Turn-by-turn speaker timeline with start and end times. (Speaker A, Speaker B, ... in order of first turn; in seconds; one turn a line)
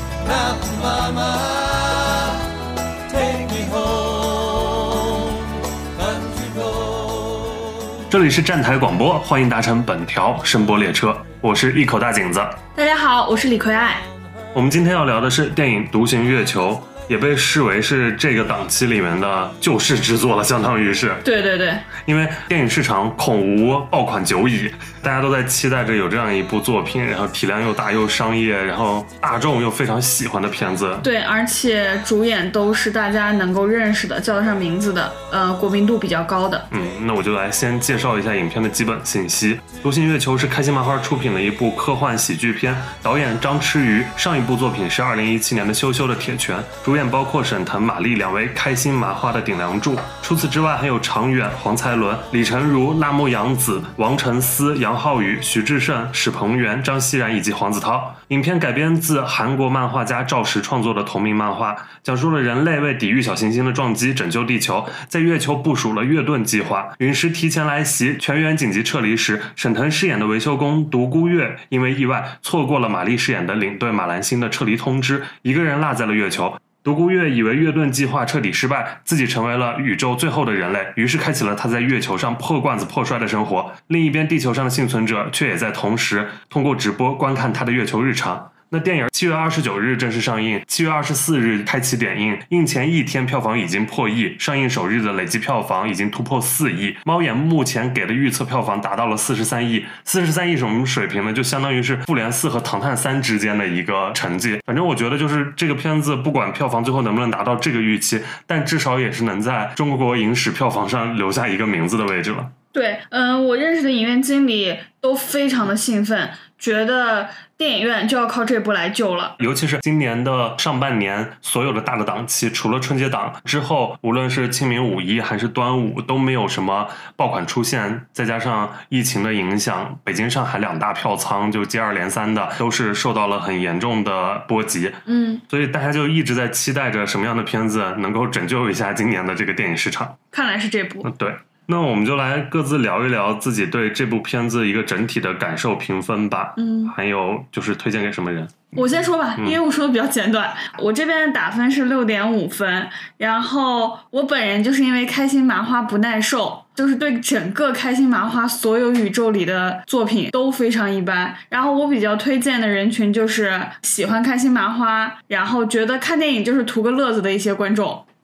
Speaker A: 0.2-2.5
Speaker A: 3.1-8.1
Speaker B: 8.1-12.6
Speaker C: 12.7-14.1
Speaker B: 14.5-21.2
Speaker C: 21.2-21.9
Speaker B: 22.0-31.1
Speaker C: 31.0-36.7
Speaker B: 36.7-112.5
Speaker C: 112.7-119.4
Speaker B: 119.4-140.2
Speaker C: 135.1-135.4
Speaker C: 140.3-141.1
Speaker B: 141.0-148.7
Speaker C: 146.6-146.9
Speaker C: 148.7-168.0